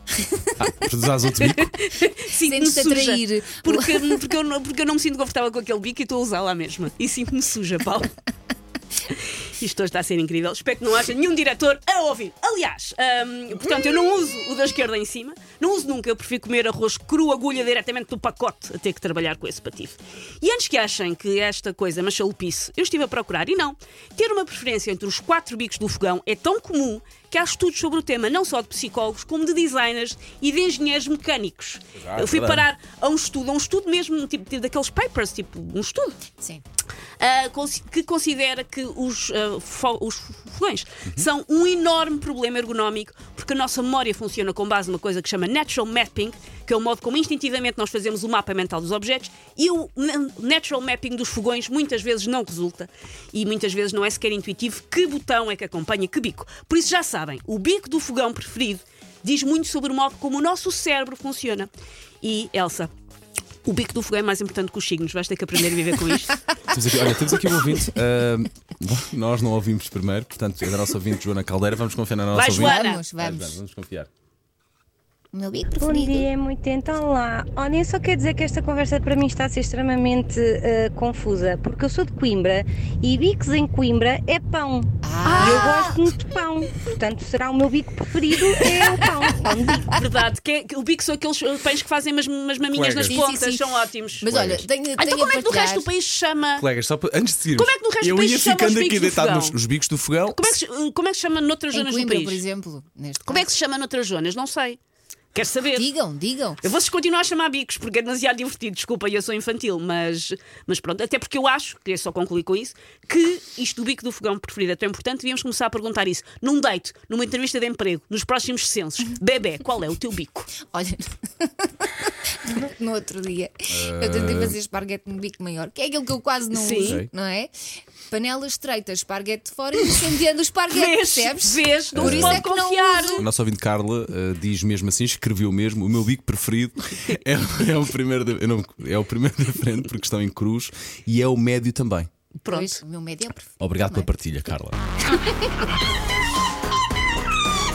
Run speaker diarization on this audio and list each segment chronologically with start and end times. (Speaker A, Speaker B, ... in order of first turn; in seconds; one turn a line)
Speaker A: 0.6-1.7
Speaker B: 1.4-8.1
Speaker C: 2.4-4.2
Speaker B: 9.1-36.2
Speaker A: 32.0-32.7
Speaker B: 37.2-61.7
Speaker B: 62.2-62.9
Speaker B: 63.6-66.4
Speaker A: 66.7-74.1
Speaker B: 72.3-73.0
Speaker C: 72.5-73.6
Speaker C: 75.3-76.3
Speaker D: 75.8-89.9
Speaker C: 85.0-85.9
Speaker B: 85.3-85.9
Speaker B: 89.8-94.3
Speaker A: 92.7-93.2
Speaker C: 93.0-95.9
Speaker A: 94.2-94.6
Speaker B: 95.0-96.6
Speaker A: 96.6-100.5
Speaker B: 97.5-99.6
Speaker B: 100.3-102.4
Speaker C: 101.7-103.5
Speaker B: 103.2-104.8
Speaker B: 105.3-105.9
Speaker C: 105.7-106.6
Speaker B: 106.6-120.5
Speaker C: 120.7-127.5
Speaker A: 123.7-124.6
Speaker B: 126.5-127.0
Speaker C: 128.1-133.2
Speaker B: 130.7-133.3
Speaker A: 131.9-132.4
Speaker A: 133.2-142.1
Speaker B: 142.4-142.8
Speaker C: 142.4-144.1
Speaker A: 143.6-144.8